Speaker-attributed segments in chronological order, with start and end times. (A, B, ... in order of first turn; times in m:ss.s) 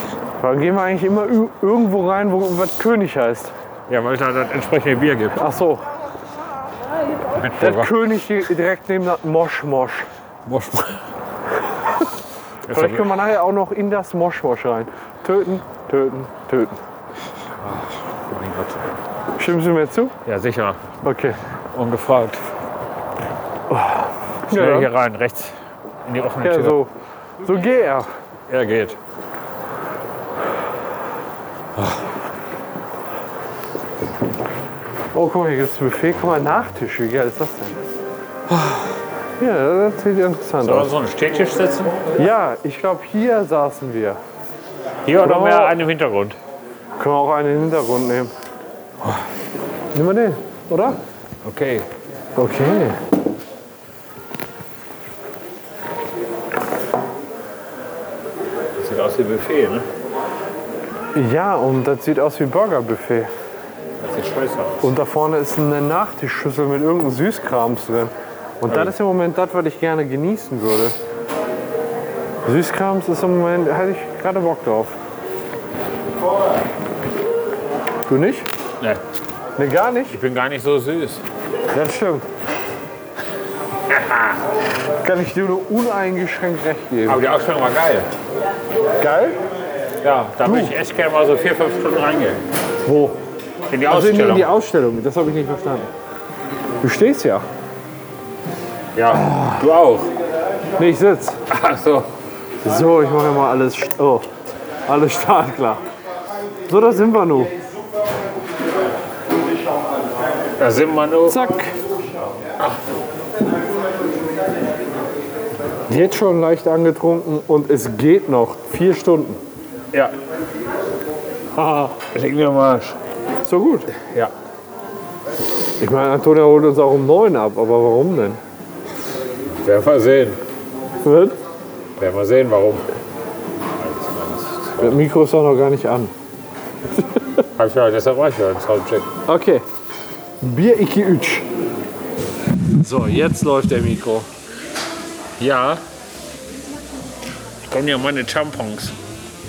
0:00.4-0:03.5 A
0:03.9-0:05.4 B
0:05.4-0:05.8 A
0:07.3-0:08.1 B
0:07.6-0:10.1 A
0:10.4-0:11.0 B
0:12.6-0:13.2 B
0:12.7-0:16.8 A
0:17.6-0:19.0 B
0:19.4-0:20.1 A
0:20.2-0:20.8 B
0:21.0-0:21.4 A
0:21.7-0:22.5 B
0:23.7-0:24.9 A
0:24.5-0:26.8 B
0:26.4-0:26.9 A
0:27.4-0:28.1 A
0:28.5-0:29.0 B
0:35.1-0:37.8 A
0:39.4-0:40.9 A
0:40.6-0:42.2 B
0:42.2-0:44.2 A
0:45.0-0:46.4 B
0:45.2-0:45.8 A
0:47.0-0:48.3 A
0:49.9-0:51.0 A
0:51.4-0:51.9 B
0:52.4-0:53.0 A
0:58.8-0:59.9 B
1:01.1-1:03.3 A
1:04.0-1:04.9 B
1:04.8-1:11.0 A
1:08.7-1:08.9 B
1:12.4-1:15.0 A
1:18.1-1:18.5 A
1:19.6-1:20.2 A
1:20.1-1:21.2 B
1:21.7-1:22.3 A
1:23.9-1:24.4 B
1:25.0-1:27.2 A
1:27.0-1:28.1 B
1:29.0-1:29.4 A
1:30.0-1:32.4 B
1:30.4-1:30.7 A
1:32.8-1:33.2 A
1:33.7-1:34.5 B
1:33.9-1:35.9 A
1:36.8-1:37.4 A
1:38.9-1:40.1 B
1:40.8-1:41.4 A
1:41.5-1:42.1 B
1:42.6-1:44.3 A
1:44.9-1:45.8 A
1:46.6-1:47.5 A
1:50.6-1:51.5 B
1:51.2-1:51.8 A
1:55.9-1:59.4 A
2:01.6-2:03.0 B
2:03.4-2:03.9 A
2:04.0-2:04.3 B
2:05.8-2:08.4 A
2:09.4-2:10.4 B
2:11.0-2:11.4 A
2:12.0-2:12.9 B
2:13.8-2:15.0 B
2:14.8-2:16.1 A
2:17.6-2:19.1 B
2:19.3-2:19.6 A
2:20.4-2:21.5 A
2:22.7-2:24.3 A
2:25.4-2:25.8 B
2:27.6-2:29.0 B